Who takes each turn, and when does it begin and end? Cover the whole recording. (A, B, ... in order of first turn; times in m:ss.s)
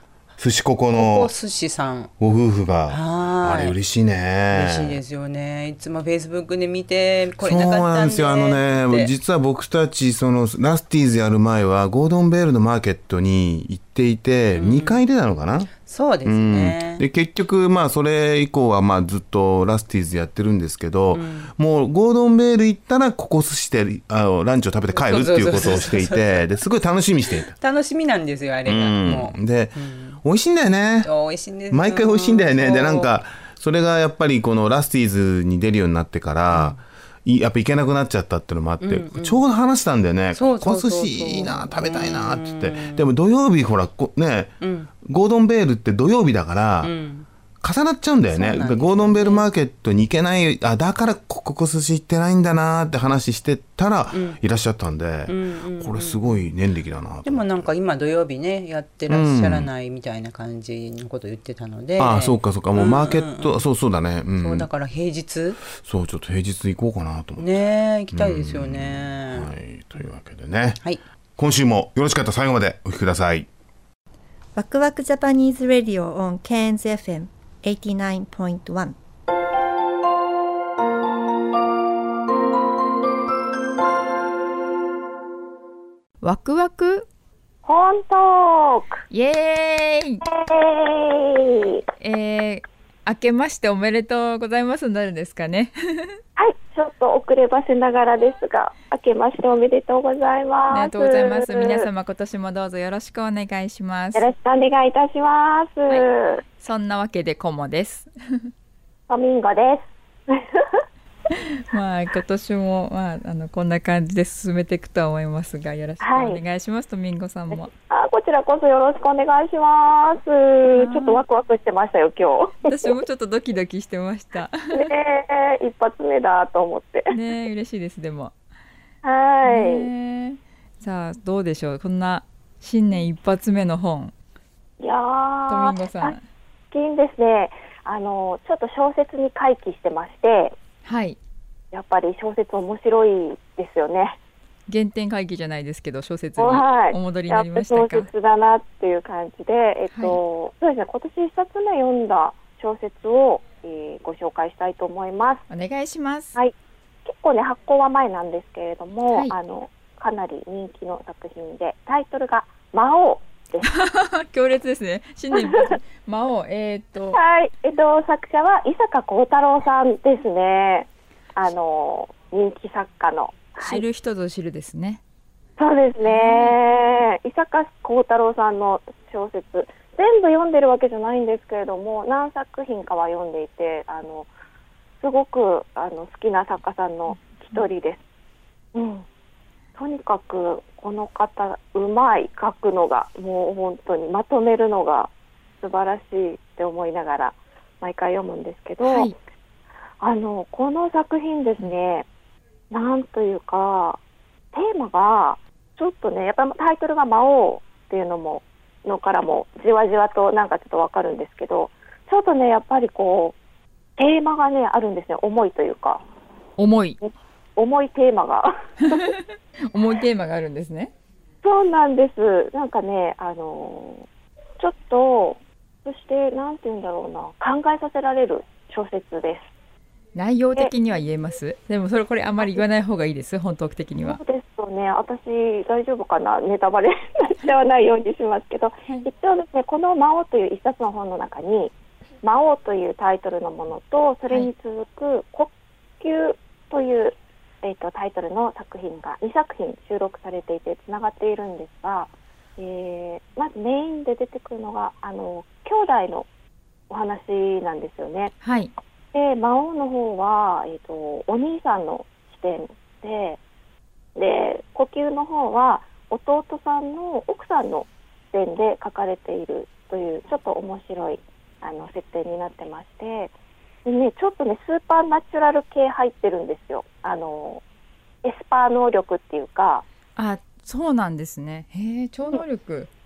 0:00.4-0:01.3 A
0:00.9-0:02.1 B
0:02.2-0:05.0 A
0:02.9-0:03.8 B
0:04.5-0:09.1 B
0:07.4-0:15.7 A
0:14.5-0:15.0 B
0:15.8-0:17.0 B
0:16.2-0:27.5 A
0:21.1-0:21.5 B
0:24.9-0:26.5 B
0:27.4-0:30.2 B
0:28.6-0:31.1 A
0:31.0-0:33.1 B
0:31.7-0:46.9 A
0:36.5-0:36.8 B
0:38.8-0:39.4 B
0:40.3-0:43.1 B
0:44.6-0:44.9 B
0:46.8-0:47.3 B
0:47.6-0:57.7 A
0:48.3-0:49.4 B
0:54.1-0:54.4 B
0:55.3-0:56.4 B
0:57.2-1:03.5 B
0:59.1-0:59.7 A
1:02.0-1:04.7 A
1:04.4-1:05.6 B
1:05.7-1:07.5 A
1:07.4-1:09.5 B
1:08.1-1:10.8 A
1:11.4-1:13.5 A
1:14.5-1:18.9 C
1:26.2-1:27.0 D
1:27.6-1:29.0 E
1:29.1-1:30.2 D
1:30.2-1:31.8 E
1:32.0-1:36.1 D
1:36.4-1:41.8 E
1:40.7-1:44.3 D
1:44.1-1:46.4 E
1:46.6-1:48.1 D
1:49.1-1:50.8 E
1:51.7-1:57.7 D
1:56.0-1:56.4 E
1:57.5-2:02.9 E
2:00.7-2:01.2 D
2:02.6-2:04.9 D
2:04.7-2:07.1 E
2:07.1-2:08.3 D
2:09.0-2:09.9 E
2:09.4-2:14.1 D
2:14.8-2:16.1 E
2:15.5-2:16.2 D
2:16.7-2:20.5 E
2:20.8-2:21.2 D
2:21.7-2:24.2 E
2:24.7-2:28.1 D
2:26.4-2:35.4 E
2:29.9-2:30.2 D
2:35.5-2:36.4 D
2:37.0-2:43.7 E
2:43.6-2:47.2 D
2:45.3-2:45.7 E
2:47.1-2:53.8 E
2:53.6-2:55.0 D
2:55.6-3:04.3 E
2:56.0-2:56.6 D
3:05.0-3:08.0 E
3:07.2-3:07.6 D
3:08.7-3:09.0 E
3:09.8-3:15.1 E
3:15.6-3:19.1 E
3:18.8-3:19.1 D
3:20.0-3:22.0 E
3:22.7-3:24.0 E
3:24.5-3:33.3 E
3:34.0-3:36.0 E
3:36.6-3:37.0 D
3:37.0-3:39.1 E
3:38.8-3:40.9 D
3:41.4-3:44.0 E
3:44.6-3:49.4 E
3:50.1-3:54.2 D
3:54.0-4:01.7 E
4:02.2-4:16.2 E
4:16.9-4:18.3 E
4:18.4-4:18.7 D
4:19.1-4:23.4 E
4:24.2-4:33.3 E
4:33.8-4:37.6 E
4:38.2-4:39.8 E
4:40.2-4:42.9 D